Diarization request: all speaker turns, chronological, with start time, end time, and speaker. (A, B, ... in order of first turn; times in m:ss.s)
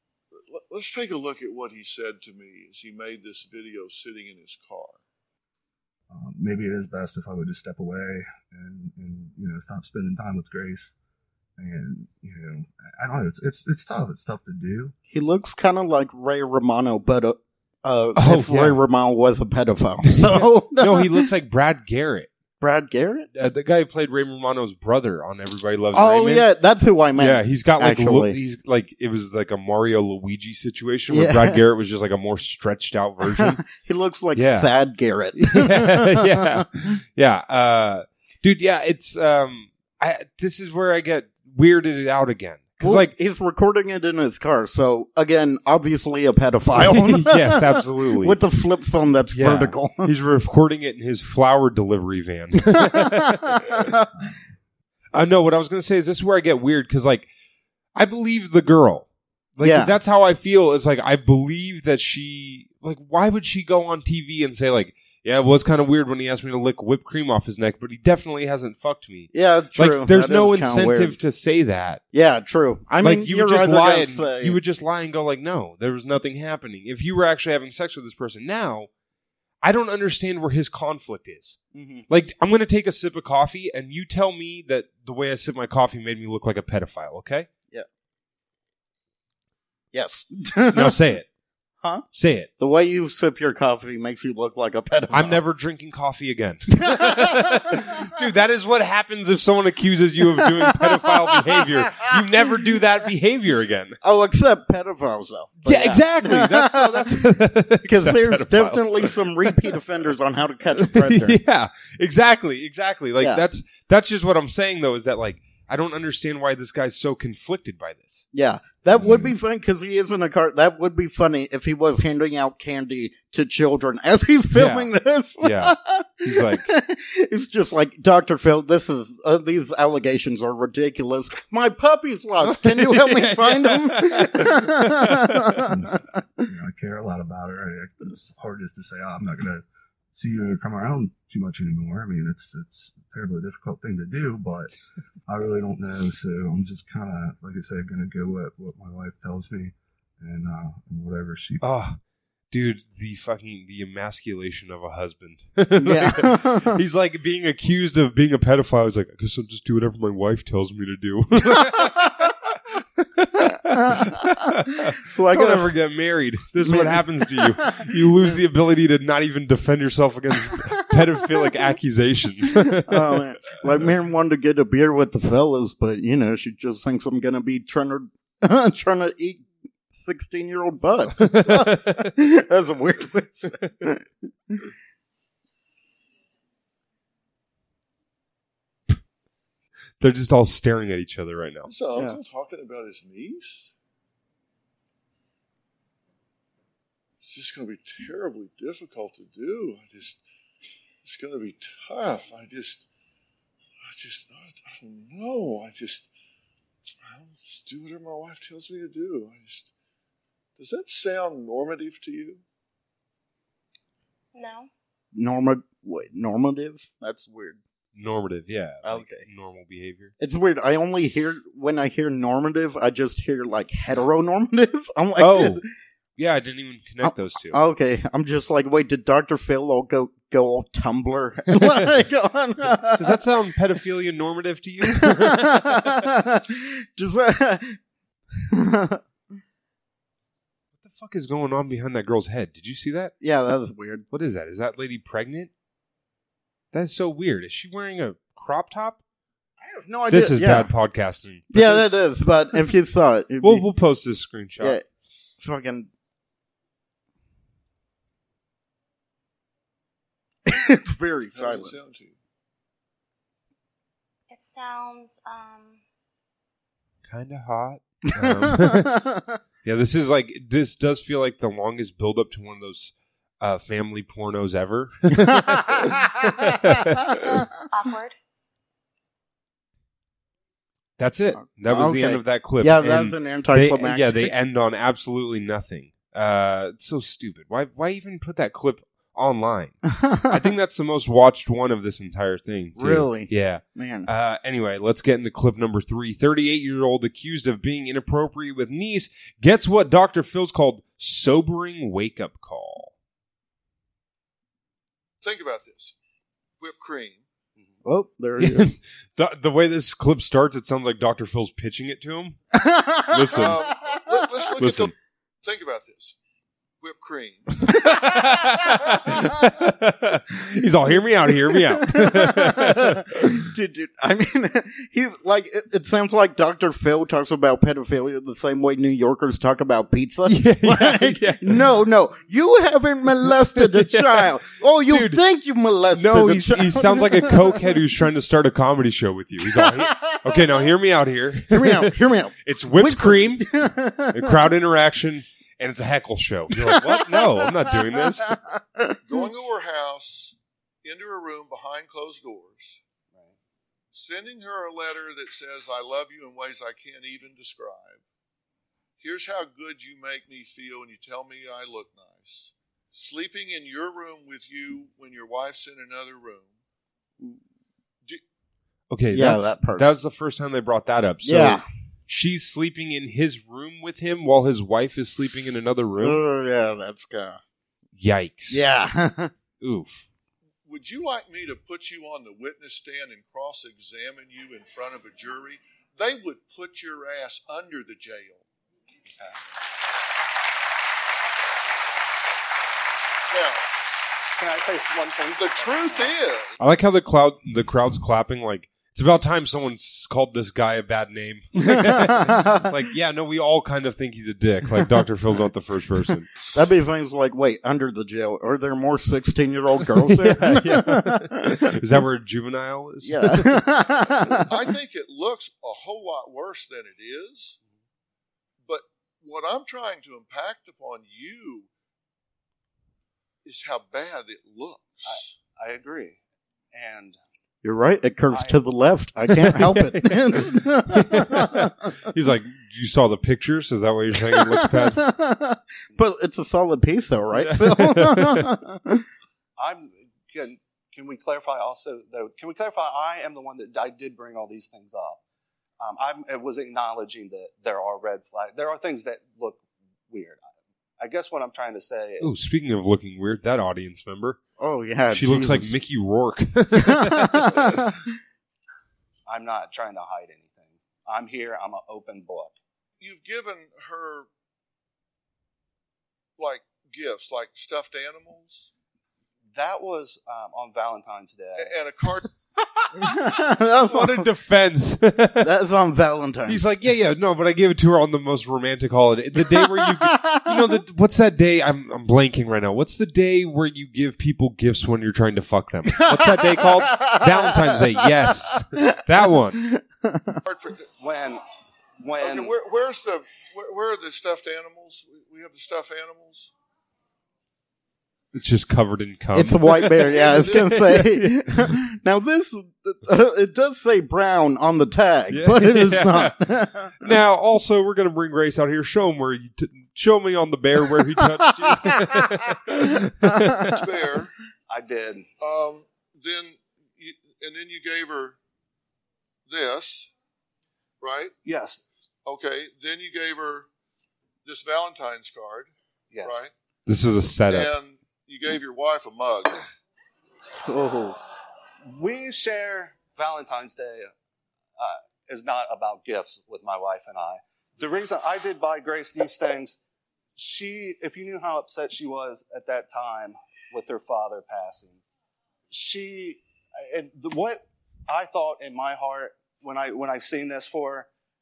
0:00.5-0:05.0 A
0:06.1-0:10.9 B
0:11.6-0:14.9 B
0:15.1-0:21.3 C
0:18.2-0:18.8 D
0:20.0-0:22.3 D
0:22.6-0:23.3 C
0:23.3-0:26.4 D
0:25.9-0:28.4 C
0:27.2-0:33.6 D
0:31.1-0:31.6 C
0:33.3-0:36.6 C
0:34.3-0:34.7 D
0:35.4-0:43.1 D
0:42.8-0:50.1 C
0:46.7-0:48.4 D
0:49.3-0:53.9 D
0:52.7-0:54.0 C
0:55.1-0:57.3 D
0:57.9-1:12.0 D
0:59.6-0:59.9 C
1:09.3-1:11.2 C
1:12.1-1:14.6 C
1:13.0-1:18.9 D
1:19.6-1:21.6 D
1:21.7-1:22.1 C
1:22.1-1:27.5 D
1:29.9-1:31.0 C
1:30.7-1:31.3 D
1:32.1-1:32.5 D
1:32.6-1:35.4 C
1:35.1-1:44.0 D
1:36.9-1:37.5 C
1:40.4-1:41.7 C
1:44.0-1:51.4 C
1:45.6-1:49.5 D
1:50.8-1:58.2 D
1:53.2-1:53.4 C
1:58.3-2:16.0 C
1:59.0-1:59.3 B
2:04.5-2:06.7 D
2:12.4-2:15.7 D
2:15.7-2:24.7 B
2:25.3-2:31.6 B
2:31.6-2:32.0 D
2:32.5-2:42.6 D
2:35.8-2:36.8 C
2:43.2-2:53.5 D
2:43.4-2:44.4 C
2:45.0-2:45.7 C
2:46.6-2:48.4 C
2:52.8-3:04.6 C
3:01.2-3:02.2 D
3:10.0-3:11.7 D
3:11.6-3:13.7 A
3:17.2-3:20.2 A
3:21.0-3:22.9 A
3:23.8-3:26.1 A
3:27.0-3:29.7 A
3:30.6-3:32.4 A
3:34.3-3:34.7 E
3:35.1-3:37.6 C
3:37.9-3:40.1 D
3:38.8-3:39.2 C
3:40.2-3:45.6 C
3:45.2-3:45.6 D
3:46.2-3:47.6 D
3:47.0-3:53.2 C
3:51.5-3:51.9 D
3:52.9-3:56.0 D
3:54.9-3:57.8 C
3:58.4-3:59.0 C
4:00.8-4:03.1 D
4:03.2-4:04.0 C
4:04.1-4:05.5 D
4:06.7-4:09.0 D
4:09.6-4:10.7 C
4:10.1-4:11.9 D
4:11.5-4:13.7 C
4:13.4-4:14.8 D
4:15.4-4:15.9 C
4:20.4-4:21.8 C
4:21.3-4:22.2 A
4:24.3-4:25.8 E
4:27.1-4:28.9 D
4:28.2-4:29.4 C
4:29.6-4:37.4 D
4:35.2-4:37.4 C
4:37.7-4:38.1 E
4:41.0-5:02.9 D
4:41.6-4:44.3 C
4:50.0-4:50.4 C
4:52.8-4:54.1 C
5:05.2-5:06.0 A
5:06.6-5:07.2 A
5:07.8-5:08.8 C
5:08.4-5:12.6 D
5:12.5-5:14.2 C
5:13.1-5:13.6 D
5:13.3-5:16.2 A
5:14.6-5:14.9 D
5:16.8-5:17.6 A
5:18.0-5:23.4 D
5:20.8-5:37.7 C
5:30.2-5:31.6 D
5:33.2-5:34.3 D
5:34.9-5:35.2 D
5:35.9-5:43.5 D
5:39.4-5:40.6 C
5:41.5-5:44.4 C
5:44.1-5:48.3 D
5:46.6-5:49.0 C
5:49.0-5:52.8 A
5:53.9-5:58.0 A
5:59.0-6:06.5 A
6:08.9-6:16.2 D
6:09.1-6:09.9 C
6:11.2-6:11.6 C
6:16.0-6:17.4 C
6:18.0-6:18.6 D
6:18.5-6:19.3 C
6:19.6-6:20.0 D
6:20.6-6:28.4 A
6:33.3-6:33.6 A
6:34.4-6:36.0 F
6:35.3-6:36.5 A
6:36.6-6:46.3 D
6:41.7-6:42.6 C
6:46.5-6:51.5 C
6:50.0-6:53.6 D
6:53.0-6:54.5 C
6:54.4-6:57.6 A
6:58.6-7:01.7 A
7:03.4-7:05.4 A
7:05.0-7:06.2 F
7:06.7-7:07.2 F
7:07.6-7:11.9 C
7:09.4-7:15.1 D
7:14.3-7:19.0 C
7:17.4-7:18.5 D
7:19.6-7:25.2 F
7:25.8-7:30.4 F
7:31.0-7:32.2 F
7:32.2-7:34.4 D
7:34.6-7:35.7 C
7:35.1-7:37.8 D
7:36.8-7:38.0 C
7:39.3-7:42.5 F
7:43.0-7:44.3 A
7:46.4-7:48.7 A
7:49.5-7:51.7 F
7:51.5-7:52.2 A
7:53.0-7:54.3 C
7:53.8-7:55.5 D
7:55.4-7:56.6 C
7:56.4-8:09.6 D
7:59.5-8:00.8 C
8:06.0-8:09.0 C
8:09.6-8:10.4 C
8:10.4-8:10.9 A
8:11.0-8:11.4 F
8:12.0-8:12.5 F
8:12.2-8:16.5 A
8:18.3-8:21.8 D
8:19.3-8:27.1 C
8:25.3-8:26.4 D
8:27.0-8:33.8 D
8:31.6-8:32.1 C
8:33.7-8:34.3 A
8:34.7-8:35.3 F
8:35.4-8:38.4 A
8:39.5-8:40.1 A
8:41.0-8:41.3 A
8:41.4-8:41.8 F
8:42.2-8:43.7 A
8:44.4-8:45.7 A
8:46.1-8:46.4 F
8:46.2-8:46.5 A
8:46.8-8:47.7 D
8:47.5-8:49.6 A
8:50.6-8:51.2 C
8:51.9-8:54.1 F
8:54.8-8:59.8 F
9:00.4-9:05.0 F
9:05.7-9:11.1 F